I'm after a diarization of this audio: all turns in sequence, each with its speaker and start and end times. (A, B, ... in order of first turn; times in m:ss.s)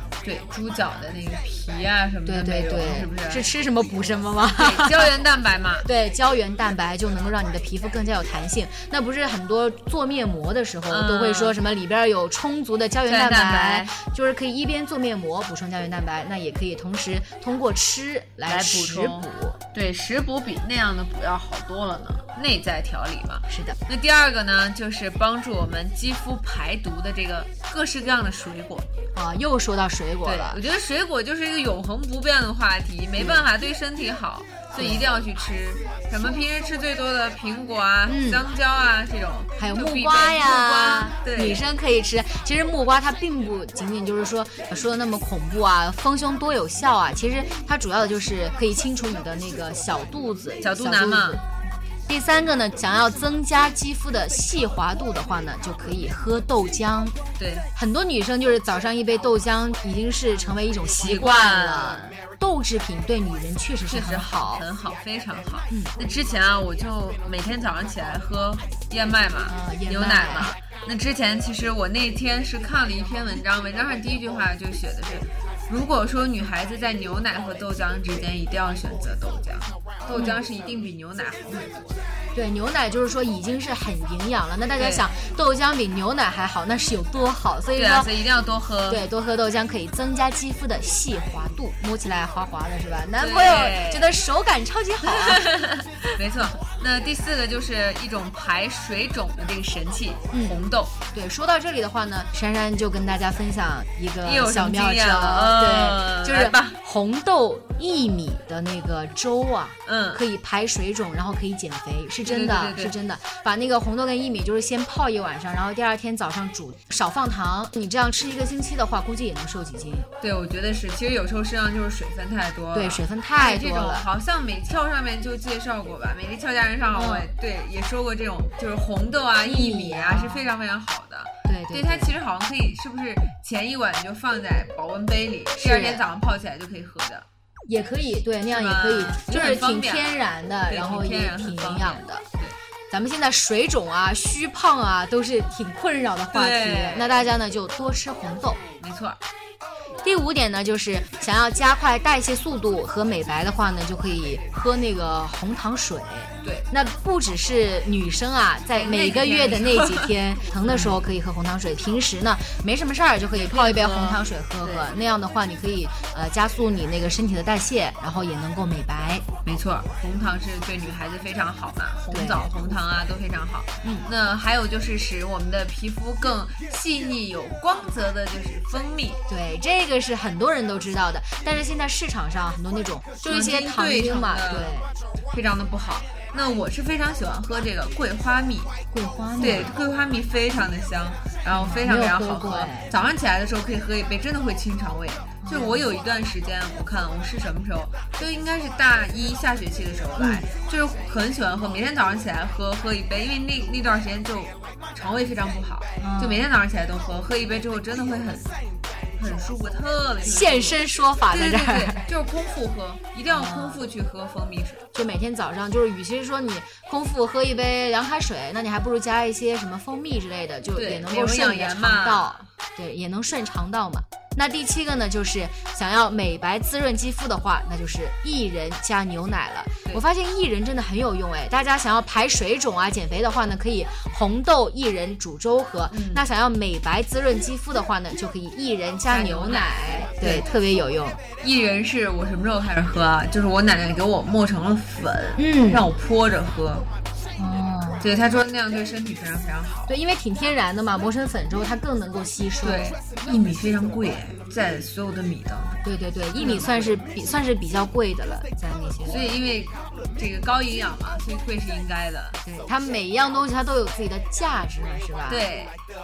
0:00.2-0:03.5 A
0:02.2-0:05.1 B
0:04.6-0:05.9 A
0:05.8-0:19.6 B
0:10.9-0:11.6 A
0:13.1-0:13.9 A
0:18.5-0:28.9 A
0:23.5-0:23.8 B
0:29.1-0:30.6 B
0:30.2-0:41.6 A
0:33.2-0:33.4 B
0:34.8-0:35.1 B
0:38.1-0:38.4 B
0:39.6-0:51.4 B
0:50.6-0:51.4 A
0:52.1-0:57.2 B
0:57.4-0:57.7 A
0:57.8-1:04.6 B
1:01.0-1:02.1 A
1:03.9-1:22.0 A
1:09.5-1:10.5 B
1:22.3-1:28.1 B
1:24.8-1:25.0 A
1:27.8-1:29.0 A
1:28.9-1:35.4 B
1:33.2-1:34.1 A
1:35.1-1:40.9 A
1:41.1-2:00.1 B
1:44.2-1:46.8 A
1:49.8-1:50.2 A
1:52.2-1:52.9 A
2:00.2-2:17.2 A
2:02.7-2:04.0 B
2:06.9-2:07.3 B
2:09.4-2:10.5 B
2:11.4-2:12.1 B
2:15.6-2:16.0 B
2:17.7-2:22.2 B
2:18.5-2:22.6 A
2:22.9-2:28.6 B
2:26.3-2:27.2 A
2:28.8-2:29.2 A
2:30.0-2:49.2 B
2:38.8-2:40.1 A
2:40.6-2:41.0 A
2:43.3-2:44.9 A
2:49.4-2:59.2 A
2:52.1-2:52.5 B
2:53.8-2:54.1 B
2:59.3-3:04.9 B
3:03.2-3:04.8 A
3:05.3-3:08.7 A
3:08.9-3:09.7 B
3:09.4-3:28.5 A
3:11.5-3:12.9 B
3:15.4-3:15.9 B
3:20.2-3:20.5 B
3:26.0-3:26.4 B
3:29.2-3:30.8 A
3:30.2-3:32.0 B
3:31.3-3:34.8 A
3:33.3-3:33.8 B
3:34.9-4:01.2 B
3:40.7-3:42.5 A
3:55.9-3:56.2 A
3:59.1-4:00.4 A
4:01.4-4:06.8 A
4:05.4-4:05.9 B
4:07.4-4:08.0 B
4:08.0-4:09.9 A
4:09.9-4:13.0 B
4:12.6-4:15.8 A
4:15.8-4:19.3 B
4:16.4-4:17.0 A
4:19.1-4:22.4 A
4:22.4-4:25.4 B
4:25.3-4:25.7 A